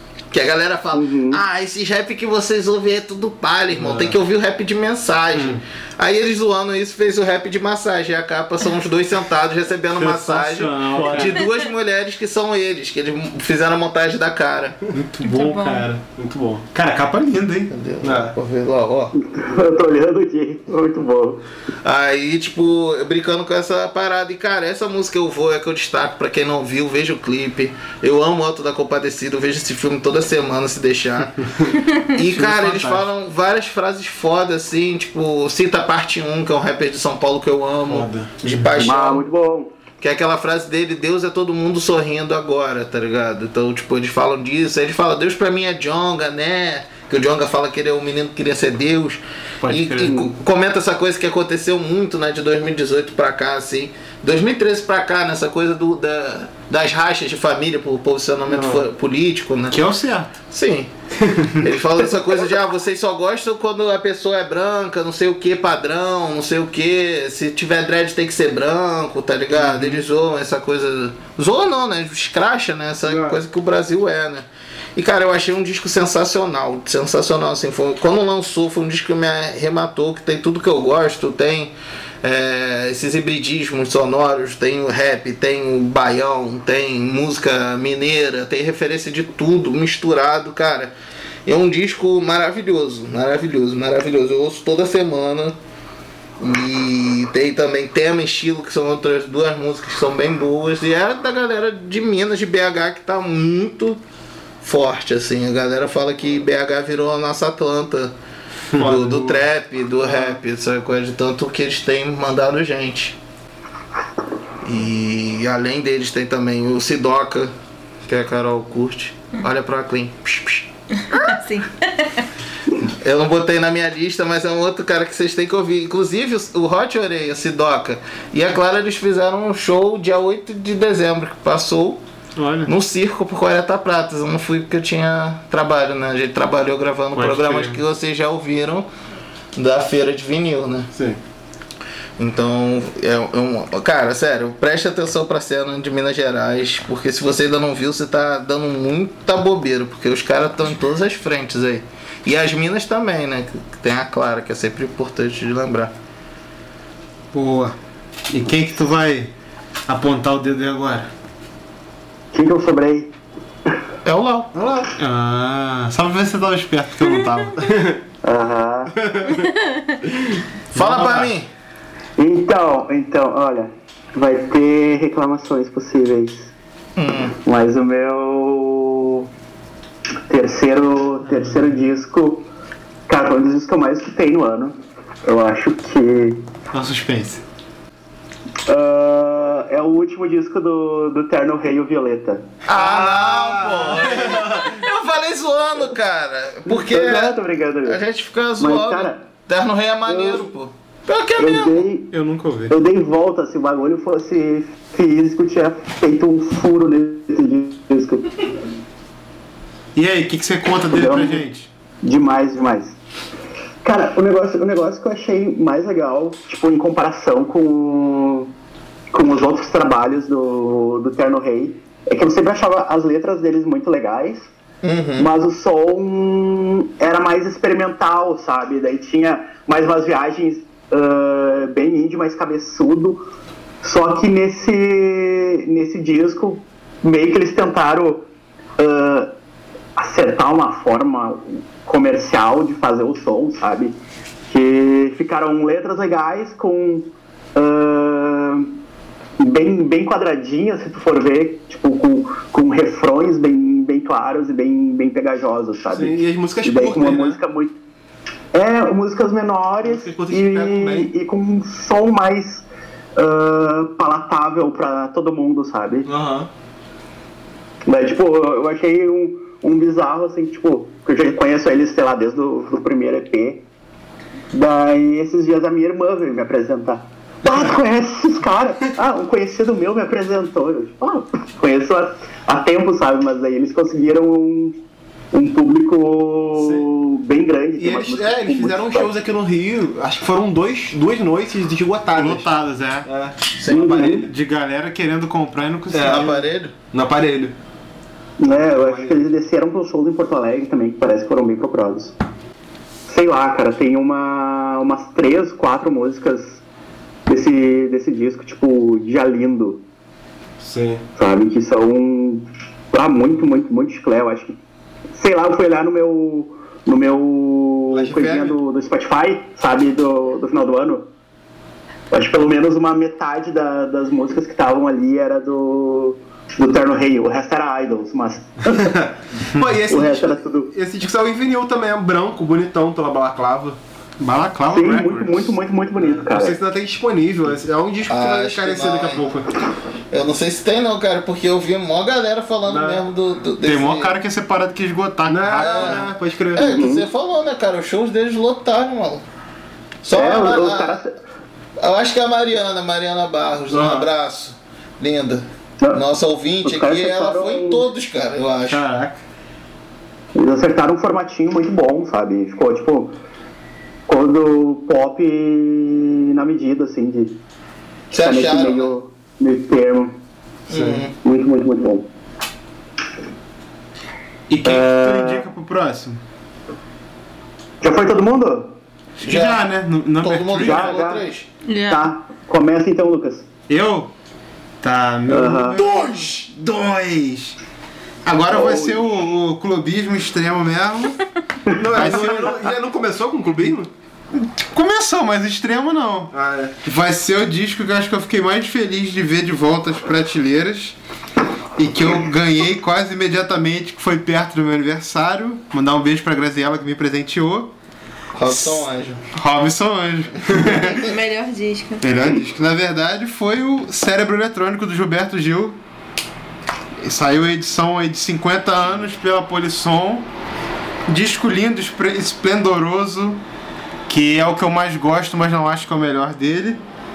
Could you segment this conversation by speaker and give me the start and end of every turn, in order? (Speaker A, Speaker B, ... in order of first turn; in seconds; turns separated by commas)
Speaker A: 0.3-14.8, Speaker B: 0.9-1.4, Speaker C: 3.8-4.1, Speaker D: 5.3-5.6, Speaker D: 9.9-11.4, Speaker C: 10.9-11.3, Speaker D: 14.9-16.1, Speaker E: 15.2-15.9, Speaker C: 16.1-16.7, Speaker D: 16.7-17.7, Speaker A: 17.7-19.1, Speaker C: 18.0-18.3, Speaker B: 19.2-21.4, Speaker A: 21.8-31.4, Speaker A: 32.1-39.2, Speaker C: 32.3-33.0, Speaker C: 37.9-38.3, Speaker B: 38.8-39.7, Speaker A: 40.0-59.8, Speaker D: 49.6-50.3, Speaker D: 59.7-60.3, Speaker A: 60.5-60.9, Speaker A: 61.6-90.9, Speaker D: 69.6-70.0, Speaker C: 73.0-73.4, Speaker A: 91.5-95.6, Speaker A: 96.4-104.0, Speaker A: 104.6-108.1, Speaker D: 108.7-109.1, Speaker C: 108.8-109.3, Speaker A: 108.8-113.2, Speaker A: 114.6-117.5, Speaker A: 118.0-121.3, Speaker E: 121.0-122.2, Speaker A: 122.8-132.0, Speaker D: 132.4-132.7, Speaker A: 132.7-138.9, Speaker D: 137.1-137.8, Speaker A: 139.6-140.9, Speaker C: 140.9-141.2, Speaker A: 142.2-155.9, Speaker D: 157.3-157.7, Speaker D: 158.3-159.3, Speaker D: 159.9-161.1, Speaker B: 162.3-163.1, Speaker A: 164.0-164.5, Speaker C: 164.6-164.9, Speaker D: 164.9-167.7, Speaker C: 167.6-168.0, Speaker B: 168.2-168.9, Speaker C: 168.9-169.5, Speaker C: 170.1-170.4, Speaker A: 170.7-171.5, Speaker D: 170.7-171.3, Speaker B: 172.2-176.5, Speaker A: 176.9-177.3, Speaker B: 177.4-179.3, Speaker B: 180.3-182.5, Speaker D: 181.2-181.7, Speaker B: 183.1-186.4, Speaker D: 186.7-187.4, Speaker B: 188.7-192.5, Speaker A: 192.6-201.9, Speaker C: 192.7-194.8, Speaker B: 196.7-198.0, Speaker B: 198.6-199.2, Speaker B: 200.1-200.4, Speaker B: 201.4-202.1, Speaker D: 202.1-202.7, Speaker B: 202.7-208.5, Speaker D: 209.9-211.7, Speaker B: 210.9-211.4, Speaker B: 212.0-213.0, Speaker B: 213.8-218.5, Speaker B: 219.1-224.5, Speaker A: 224.8-225.3, Speaker B: 225.2-233.3, Speaker B: 233.8-238.3, Speaker B: 238.8-239.3, Speaker B: 240.0-248.7, Speaker B: 249.4-257.7, Speaker C: 255.9-257.4, Speaker B: 258.5-262.6, Speaker C: 259.8-261.1, Speaker B: 263.1-266.1, Speaker C: 266.1-266.5, Speaker B: 267.9-273.6, Speaker B: 274.5-284.8, Speaker B: 285.3-289.1, Speaker C: 286.5-286.9, Speaker C: 287.8-292.5, Speaker D: 292.1-293.1, Speaker C: 293.0-294.3, Speaker A: 293.6-294.0, Speaker B: 293.7-294.3, Speaker D: 294.2-296.4, Speaker C: 295.9-296.4, Speaker A: 296.0-296.7, Speaker C: 296.9-297.5, Speaker B: 298.4-302.1, Speaker C: 298.5-299.2, Speaker B: 303.1-306.6, Speaker B: 307.3-309.8, Speaker C: 310.6-311.0, Speaker B: 311.2-314.6, Speaker B: 315.1-321.1, Speaker C: 317.9-318.6, Speaker B: 322.1-329.0, Speaker C: 328.8-333.8, Speaker B: 329.9-330.7, Speaker D: 334.2-335.6, Speaker B: 334.7-336.6, Speaker C: 336.0-339.4, Speaker A: 338.1-339.4, Speaker A: 340.1-344.1, Speaker C: 342.6-343.0, Speaker D: 343.6-346.1, Speaker C: 345.3-346.8, Speaker A: 345.6-349.2, Speaker B: 346.6-347.1, Speaker A: 350.0-351.0, Speaker B: 350.1-351.1, Speaker A: 351.8-358.8, Speaker C: 353.7-354.1, Speaker B: 356.6-357.8, Speaker D: 358.7-359.2, Speaker B: 360.3-363.2, Speaker B: 364.1-367.4, Speaker A: 368.1-368.9, Speaker B: 368.2-370.2, Speaker A: 370.7-371.1, Speaker C: 370.7-371.0, Speaker B: 371.2-372.1, Speaker D: 374.5-376.2, Speaker B: 374.6-375.5, Speaker B: 377.8-378.8, Speaker D: 379.2-380.9, Speaker A: 379.2-379.7, Speaker A: 380.2-381.5, Speaker B: 380.6-381.2, Speaker E: 381.6-382.1, Speaker B: 381.9-383.5, Speaker D: 383.7-384.1, Speaker D: 384.8-387.6, Speaker B: 385.3-385.8, Speaker A: 385.8-386.1, Speaker D: 388.2-391.2, Speaker B: 388.5-389.0, Speaker B: 391.6-392.5, Speaker C: 391.8-393.9, Speaker D: 391.9-392.7, Speaker D: 394.3-396.3, Speaker C: 396.3-396.8, Speaker D: 396.8-400.9, Speaker D: 401.8-407.7, Speaker A: 408.4-409.2, Speaker D: 408.5-411.1, Speaker E: 410.6-412.0, Speaker D: 412.0-415.8, Speaker D: 417.0-420.3, Speaker D: 421.1-423.4, Speaker D: 424.1-426.8